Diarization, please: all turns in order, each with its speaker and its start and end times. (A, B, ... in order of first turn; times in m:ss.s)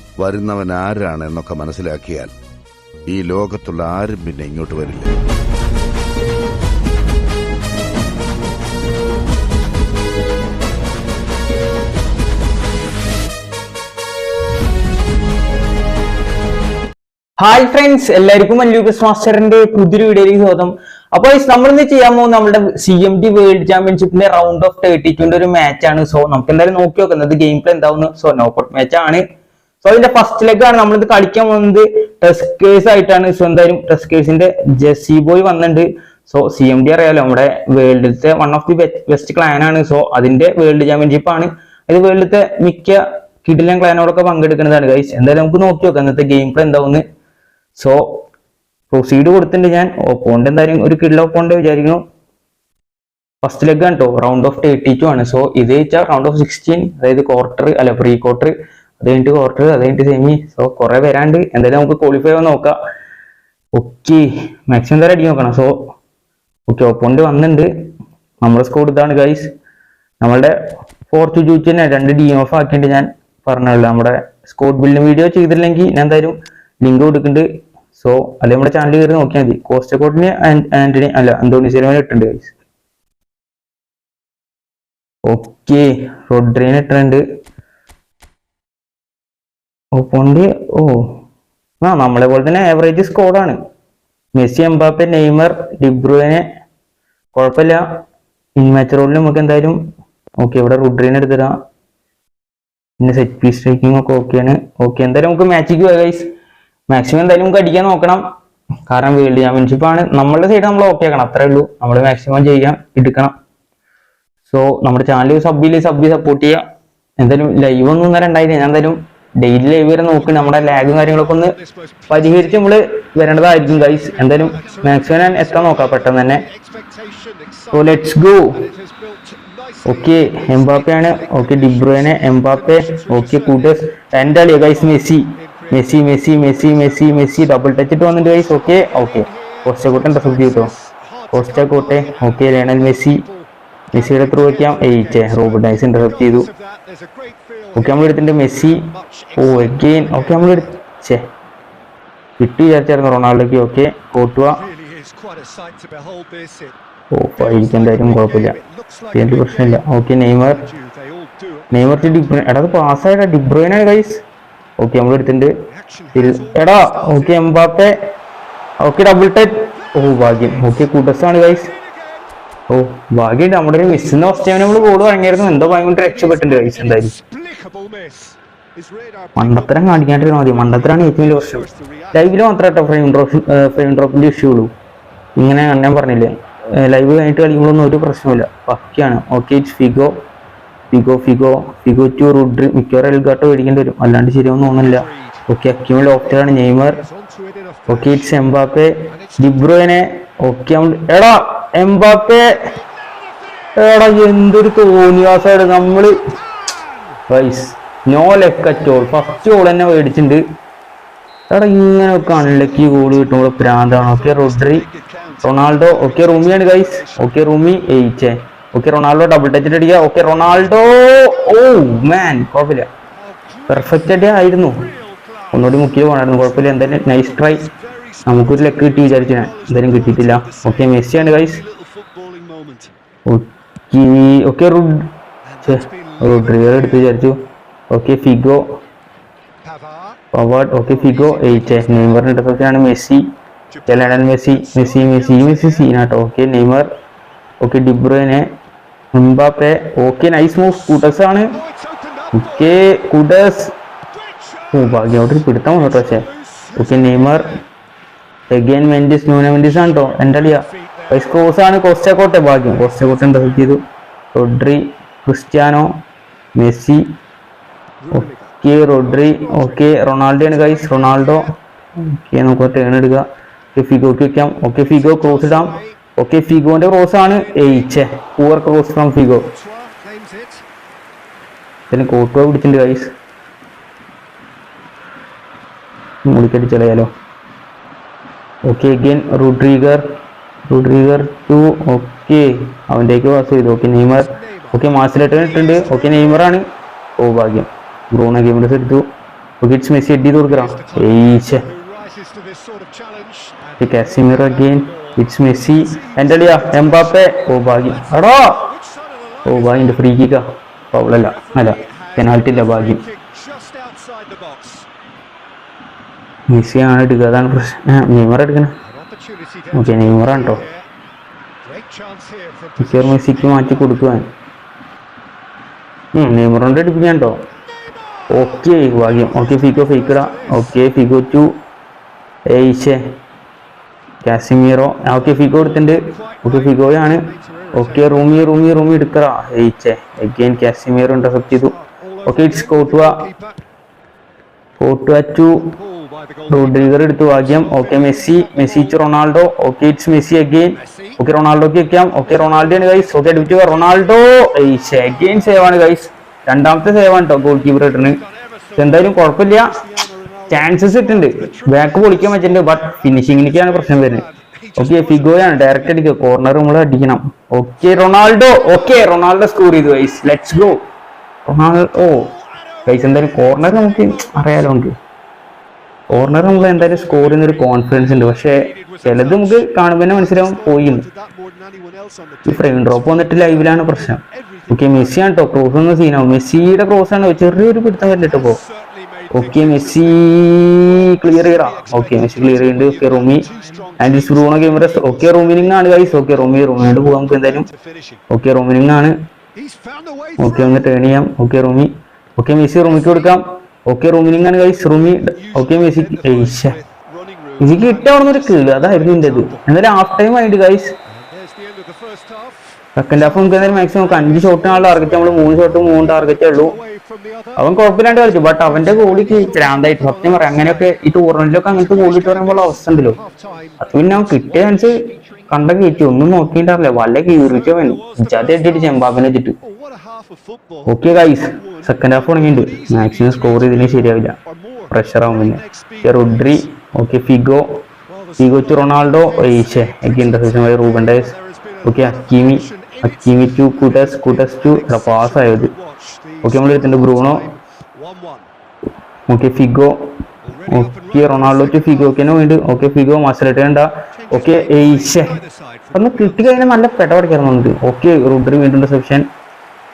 0:00.2-0:02.3 A
0:03.1-0:05.2 A
0:17.4-0:29.2 B
0:29.8-0:47.0 B
0:47.8-0:48.2 B
0:48.9-0:52.0 B
0:53.4-1:02.8 B
1:03.8-1:05.8 B
1:06.7-1:07.7 B
1:08.4-1:09.5 B
1:10.2-1:10.5 B
1:11.1-1:22.5 B
1:25.3-1:27.2 B
1:30.0-1:31.2 B
1:31.8-1:33.6 B
1:34.3-1:36.4 B
1:37.3-1:37.8 B
1:38.6-1:39.8 B
1:40.4-1:41.5 B
1:43.0-1:46.3 B
1:46.9-1:48.2 B
1:48.9-1:53.3 B
1:54.5-1:56.6 B
1:57.2-2:01.6 B
2:00.2-2:02.6 C
2:02.1-2:06.5 B
2:03.7-2:07.8 C
2:07.7-2:08.6 B
2:08.6-2:13.7 C
2:09.9-2:20.7 B
2:14.6-2:15.9 C
2:16.5-2:17.5 C
2:18.0-2:28.2 C
2:21.3-2:23.2 B
2:23.9-2:26.5 B
2:27.8-2:31.2 B
2:28.9-2:30.7 C
2:32.4-2:34.6 B
2:34.6-2:36.7 C
2:37.1-2:38.6 B
2:37.4-2:39.8 C
2:39.1-2:40.6 B
2:40.6-2:42.2 C
2:41.7-2:44.2 B
2:44.8-2:45.5 B
2:45.8-2:47.4 C
2:46.1-2:47.9 B
2:48.8-2:51.7 B
2:49.8-2:50.9 C
2:51.7-2:52.2 C
2:52.7-2:57.1 B
2:54.4-3:02.2 C
2:59.4-3:04.7 B
3:05.4-3:10.1 B
3:10.9-3:17.0 B
3:14.8-3:15.4 C
3:16.7-3:18.4 C
3:17.9-3:22.6 B
3:19.1-3:19.6 C
3:23.0-3:23.8 C
3:23.8-3:26.2 B
3:26.6-3:27.2 C
3:27.3-3:30.4 B
3:31.5-3:34.8 B
3:32.1-3:37.3 C
3:35.4-3:42.9 B
3:43.2-3:52.9 C
3:43.7-3:44.8 B
3:45.5-3:47.7 B
3:48.2-3:51.6 B
3:53.3-3:55.1 B
3:55.5-3:57.0 C
3:55.6-3:57.4 B
3:57.9-3:58.6 B
3:59.6-4:00.2 C
4:00.3-4:03.3 B
4:00.9-4:02.2 C
4:03.7-4:05.9 C
4:03.9-4:06.9 B
4:07.6-4:08.5 B
4:09.1-4:11.6 B
4:11.6-4:12.8 C
4:12.4-4:13.7 B
4:14.2-4:15.1 C
4:14.7-4:17.6 B
4:15.7-4:17.6 C
4:18.5-4:23.8 B
4:19.6-4:21.4 C
4:22.7-4:23.7 C
4:24.3-4:25.9 B
4:26.6-4:27.0 B
4:28.0-4:31.4 C
4:28.1-4:31.5 B
4:32.2-4:39.5 B
4:34.8-4:36.0 C
4:37.4-4:38.0 C
4:39.5-4:40.6 C
4:41.9-4:43.1 B
4:46.2-4:47.1 B
4:48.7-4:50.0 B
4:50.7-4:56.6 B
4:54.2-4:56.5 C
4:57.2-4:59.1 B
4:59.6-5:01.6 B
5:00.4-5:10.0 C
5:03.8-5:08.6 B
5:09.4-5:13.0 B
5:11.2-5:14.9 C
5:16.5-5:18.8 B
5:18.8-5:20.9 C
5:19.7-5:20.6 B
5:21.6-5:24.0 C
5:22.8-5:24.3 B
5:26.2-5:27.4 B
5:27.9-5:30.8 C
5:28.3-5:31.5 B
5:32.5-5:33.0 B
5:34.2-5:41.7 B
5:35.2-5:38.4 C
5:41.5-5:43.6 C
5:42.2-5:43.2 B
5:44.8-5:45.8 B
5:45.8-5:49.0 C
5:46.5-5:58.2 B
5:50.8-5:51.2 C
5:52.3-5:54.2 C
5:54.9-5:55.8 C
5:57.7-6:06.0 C
5:58.8-5:59.8 B
6:00.5-6:04.2 B
6:04.8-6:10.8 B
6:08.5-6:09.0 C
6:11.5-6:12.3 B
6:12.0-6:14.8 C
6:12.9-6:15.0 B
6:16.1-6:21.0 B
6:16.2-6:25.3 C
6:22.5-6:28.6 B
6:28.2-6:38.2 C
6:29.3-6:33.4 B
6:34.0-6:37.7 B
6:38.3-6:39.1 B
6:39.6-6:40.9 C
6:40.4-6:46.8 B
6:42.8-6:43.4 C
6:44.9-6:49.7 C
6:47.6-6:50.9 B
6:51.2-6:52.6 C
6:53.0-6:56.8 B
6:53.2-7:01.0 C
6:57.6-7:03.2 B
7:01.8-7:03.8 C
7:03.8-7:09.6 B
7:07.4-7:16.5 C
7:10.9-7:14.4 B
7:14.9-7:17.8 B
7:18.1-7:28.5 C
7:18.4-7:21.3 B
7:21.8-7:25.7 B
7:26.4-7:27.5 B
7:29.3-7:30.2 B
7:30.4-7:32.5 C
7:30.7-7:35.4 B
7:34.2-7:37.0 C
7:35.9-7:39.3 B